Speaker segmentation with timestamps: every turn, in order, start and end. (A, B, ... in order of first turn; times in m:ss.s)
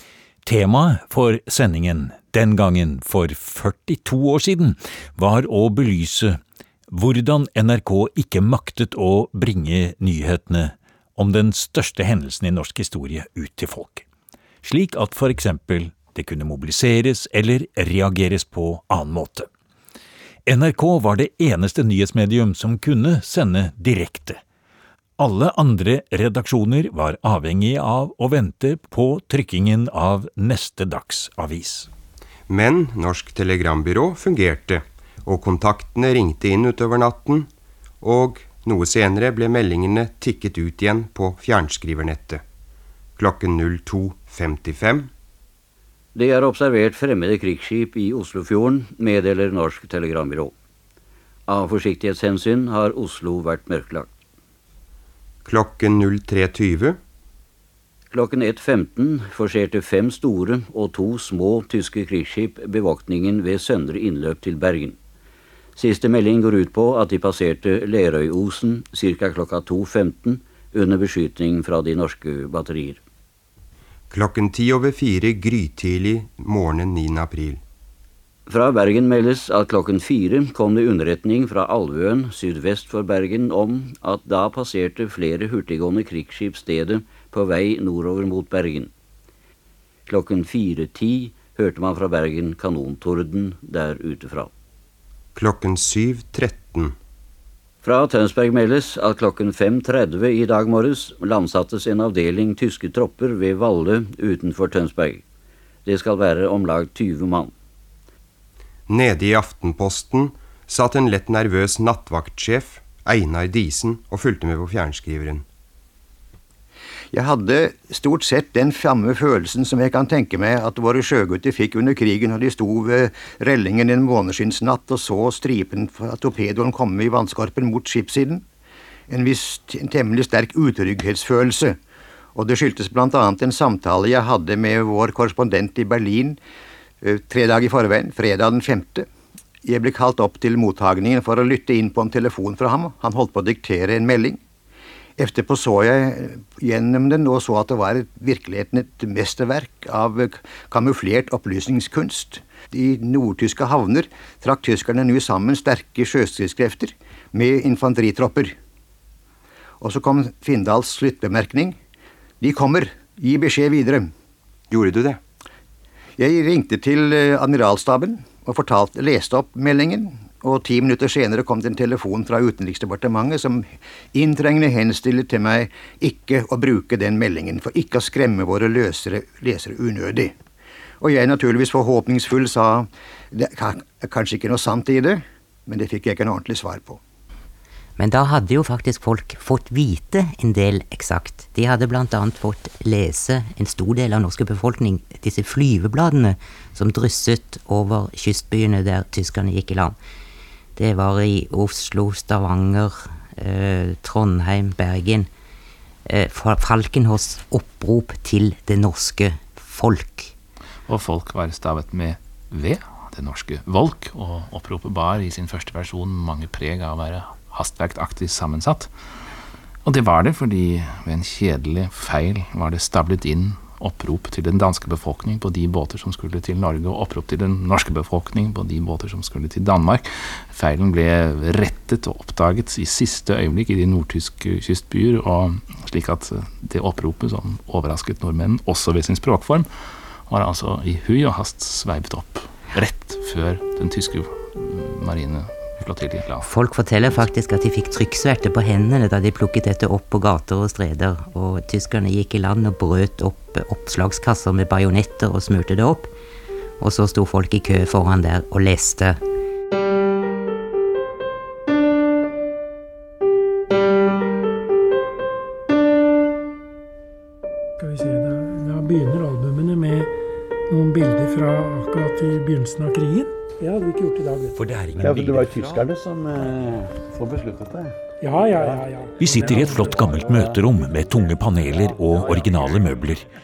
0:00.4-0:06.4 A
0:06.9-0:14.0 A
0:14.6-0:19.5 A
0:20.4-0:24.4 A
0:25.2-0:31.9 A
0:32.5-0:37.5 B
0:38.0-0:42.4 B
0:43.2-0:45.1 B
0:46.1-0:50.5 C
0:51.5-0:54.1 C
0:55.4-0:57.0 B
0:58.1-1:05.0 C
1:05.8-1:13.0 C
1:14.1-1:17.6 B
1:18.5-1:28.9 C
1:30.1-1:34.5 C
1:35.3-1:36.9 B
1:37.8-1:45.2 C
1:45.8-1:47.5 C
1:48.9-1:55.4 B
1:57.1-2:08.4 D
2:09.1-2:11.8 D
2:12.3-2:16.4 D
2:17.0-2:19.1 D
2:19.6-2:24.4 D
2:25.2-2:38.6 D
2:39.8-2:41.8 D
2:42.4-2:44.1 D
2:44.7-2:45.2 B
2:46.2-3:00.3 D
3:01.0-3:07.0 D
3:08.0-3:20.0 E
3:20.8-3:25.3 E
3:26.0-3:30.3 E
3:30.9-3:38.9 F
3:39.8-3:59.7 F
4:00.3-4:06.5 F
4:06.4-4:16.1 E
4:16.8-4:19.2 E
4:27.8-4:30.1 G
4:30.7-4:34.6 G
4:34.6-4:35.8 A
4:35.0-4:37.9 H
4:38.2-4:40.1 G
4:38.5-4:41.0 H
4:39.2-4:43.2 A
4:41.8-4:42.5 H